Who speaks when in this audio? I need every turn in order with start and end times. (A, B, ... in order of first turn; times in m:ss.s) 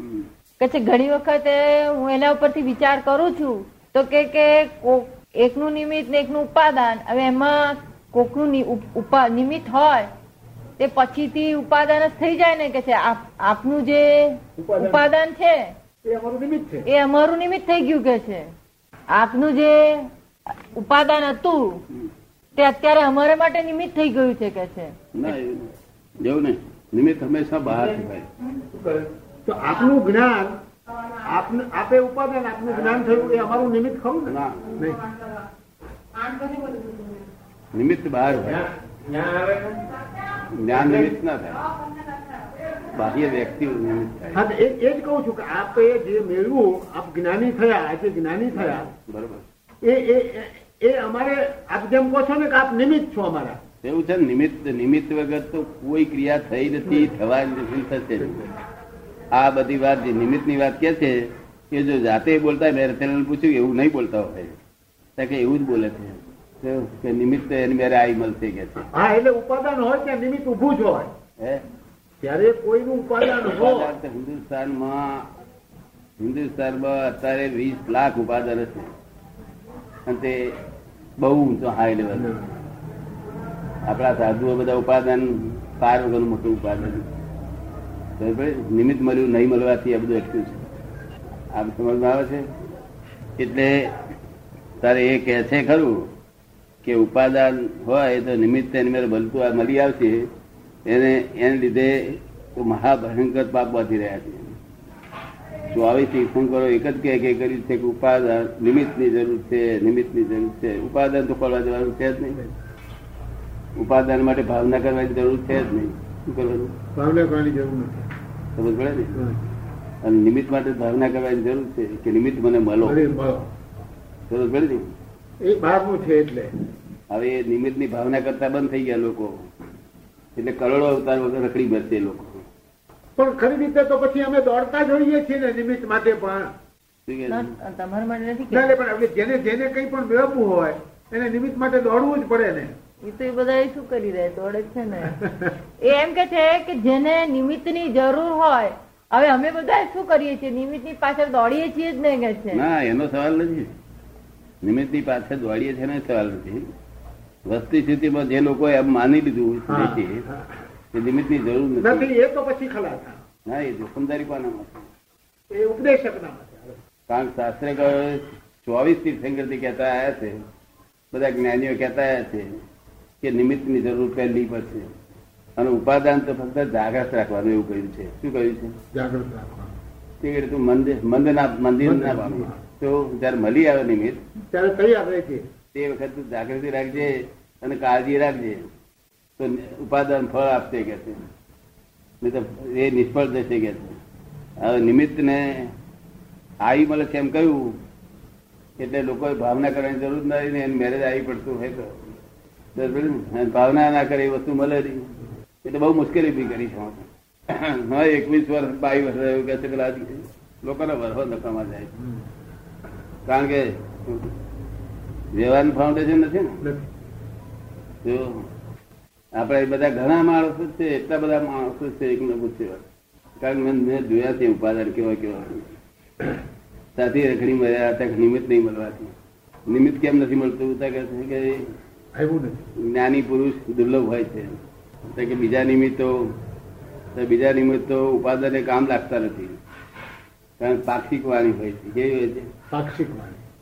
0:00.6-0:10.1 A
0:10.8-0:15.7 A
0:14.6-0:15.1 B
0:16.0-0:16.9 B
0:16.9-0:18.5 A
0:19.1-0:20.1 A
0:20.7-0:21.8 A
0:22.6-0:24.9 A
0:25.2-0:28.3 C
0:29.5-0:30.5 B
0:31.2-0:35.0 B
0:33.0-0:33.6 C
0:34.3-0:34.8 C
0:37.7-0:38.7 C
0:38.4-0:39.8 B
0:40.5-0:41.7 C
0:42.9-0:44.4 C
0:44.3-0:48.9 B
0:48.5-0:49.4 C
0:49.8-0:53.6 B
0:53.8-0:58.5 C
0:59.3-1:04.5 C
1:05.2-1:08.9 C
1:08.8-1:11.1 B
1:11.4-1:11.6 C
1:12.2-1:13.9 B
1:13.4-1:15.3 C
1:16.2-1:18.9 C
1:20.1-1:20.6 C
1:21.2-1:22.3 C
1:22.2-1:22.4 B
1:23.8-1:27.0 C
1:28.2-1:30.6 C
1:31.5-1:32.5 C
1:33.4-1:33.9 C
1:34.8-1:36.1 C
1:36.8-1:40.3 C
1:40.9-1:44.6 C
1:45.7-1:52.4 C
1:53.8-1:56.8 C
1:57.0-1:58.1 B
1:58.6-1:59.2 C
2:00.0-2:03.0 C
2:02.8-2:03.5 B
2:04.3-2:04.9 C
2:05.4-2:06.5 B
2:07.1-2:09.3 C
2:10.4-2:12.4 C
2:13.2-2:16.5 B
2:17.1-2:17.5 C
2:17.3-2:18.7 A
2:18.5-2:22.7 B
2:23.0-2:25.2 A
2:25.8-2:32.6 A
2:32.5-2:33.7 C
2:34.6-2:36.7 C
2:37.4-2:40.2 C
2:39.7-2:40.6 B
2:40.9-2:42.1 C
2:41.8-2:43.2 B
2:43.5-2:44.9 C
2:45.5-2:46.8 B
2:47.1-2:50.4 C
2:51.1-2:52.5 C
2:53.2-2:54.9 C
2:55.6-2:58.8 C
2:58.9-2:59.7 B
3:00.2-3:04.2 C
3:01.8-3:02.6 B
3:04.5-3:05.4 B
3:05.7-3:08.7 C
3:09.4-3:11.2 C
3:12.2-3:14.0 C
3:14.6-3:15.7 C
3:16.6-3:17.8 C
3:18.8-3:22.0 C
3:22.8-3:31.9 C
3:33.3-3:34.3 C
3:35.3-3:36.6 C
3:38.0-3:38.4 C
3:39.4-3:42.8 C
3:43.4-3:45.7 C
3:47.0-3:49.1 C
3:49.7-3:51.7 C
3:52.2-3:52.6 B
3:52.8-3:54.5 C
3:55.1-3:56.4 C
3:57.2-3:59.6 C
4:00.6-4:02.5 C
4:02.7-4:03.4 B